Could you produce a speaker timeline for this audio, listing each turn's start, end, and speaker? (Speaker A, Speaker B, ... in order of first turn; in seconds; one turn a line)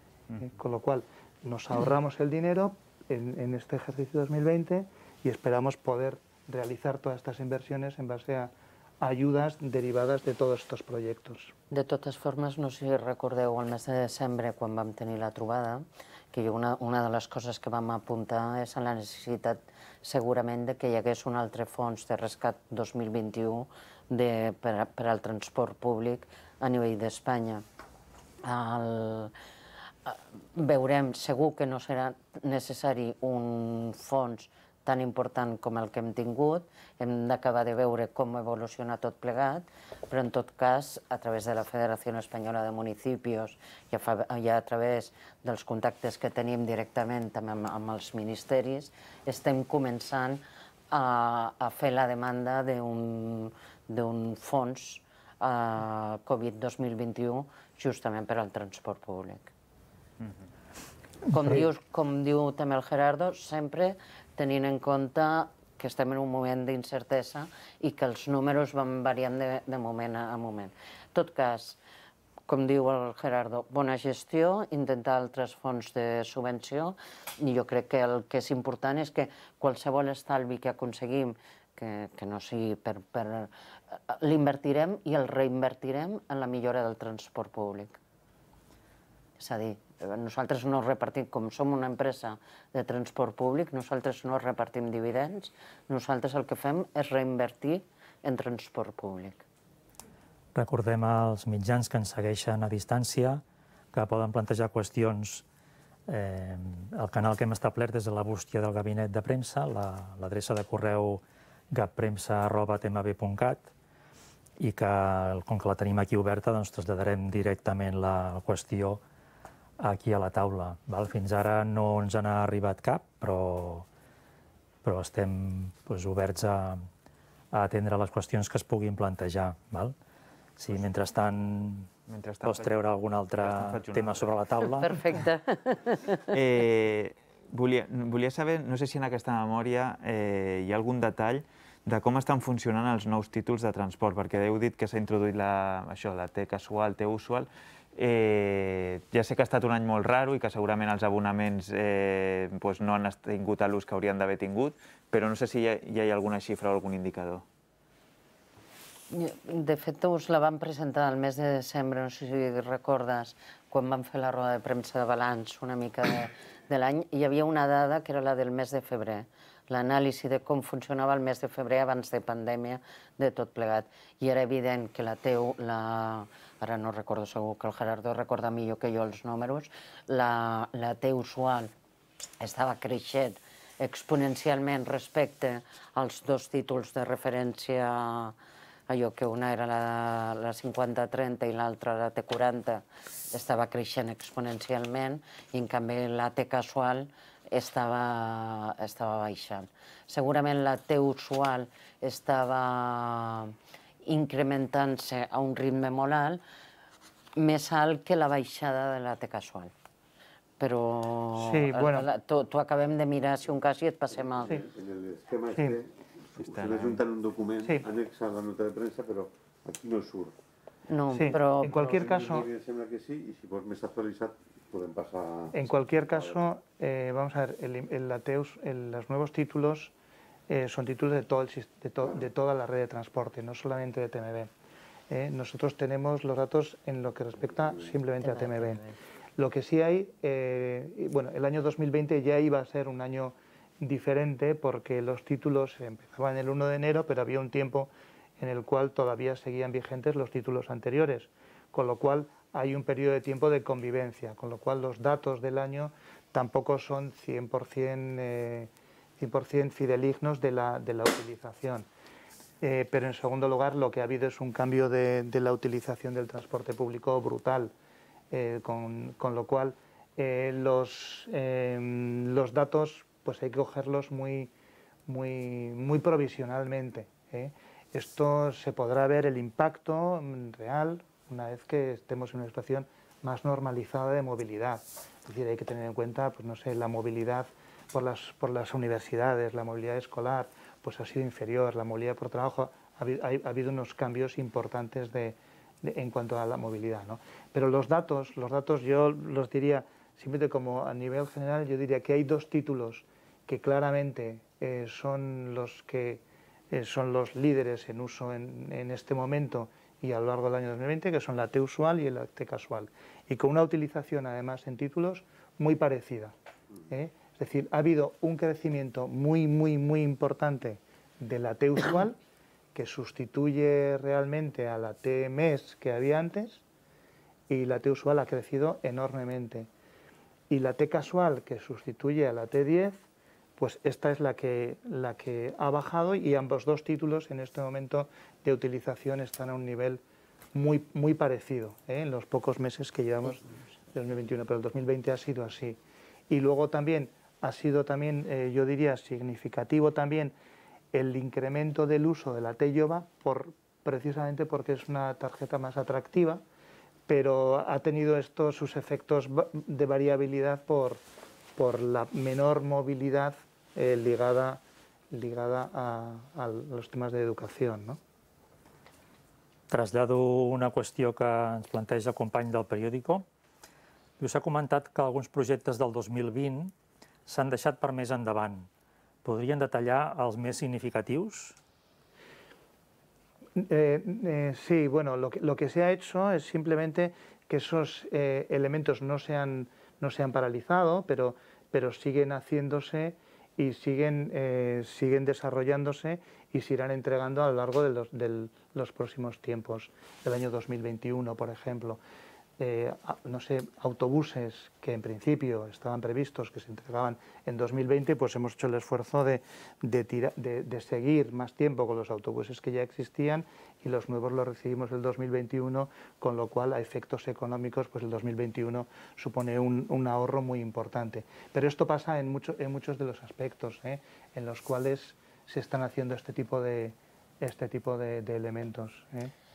Speaker A: 0.4-11.5
Speaker B: 11.7-27.6
Speaker B: 28.4-29.3
Speaker B: 30.1-59.5
Speaker B: 61.3-71.8
Speaker B: 72.5-83.5
Speaker B: 84.1-88.0
Speaker B: 89.4-99.4
Speaker C: 100.5-103.4
Speaker C: 103.9-105.4
Speaker C: 106.1-113.7
Speaker C: 114.6-119.0
Speaker C: 119.8-123.8
Speaker C: 124.8-126.8
Speaker C: 127.5-129.9
Speaker C: 130.6-131.9
Speaker D: 132.1-132.8
Speaker C: 132.4-135.2
Speaker D: 133.4-134.3
Speaker B: 134.8-136.3
Speaker D: 136.3-157.4
Speaker B: 159.1-181.7
Speaker B: 182.4-188.3
Speaker B: 188.9-203.5
Speaker B: 204.1-206.4
Speaker B: 207.3-209.7
Speaker B: 210.6-214.6
Speaker A: 211.3-212.1
Speaker E: 214.4-220.3
Speaker D: 216.4-217.0
Speaker B: 220.9-221.9
Speaker A: 221.1-222.5
Speaker E: 221.6-225.6
Speaker A: 225.5-229.9
Speaker E: 226.1-226.4
Speaker A: 230.5-234.5
Speaker A: 235.1-238.8
Speaker B: 238.2-238.9
Speaker A: 239.4-261.9
Speaker A: 262.6-267.7
Speaker A: 268.3-274.5
Speaker A: 275.1-316.3
Speaker A: 316.9-322.2
Speaker A: 322.7-326.6
Speaker A: 327.5-329.7
Speaker A: 330.5-333.0
Speaker A: 333.6-340.0
Speaker A: 340.5-350.3
Speaker A: 350.9-356.4
Speaker A: 357.1-361.0
Speaker A: 361.6-368.0
Speaker C: 369.7-373.2
Speaker C: 374.2-376.7
Speaker C: 377.2-378.7
Speaker C: 379.2-381.6
Speaker A: 383.6-402.0
Speaker A: 402.6-429.3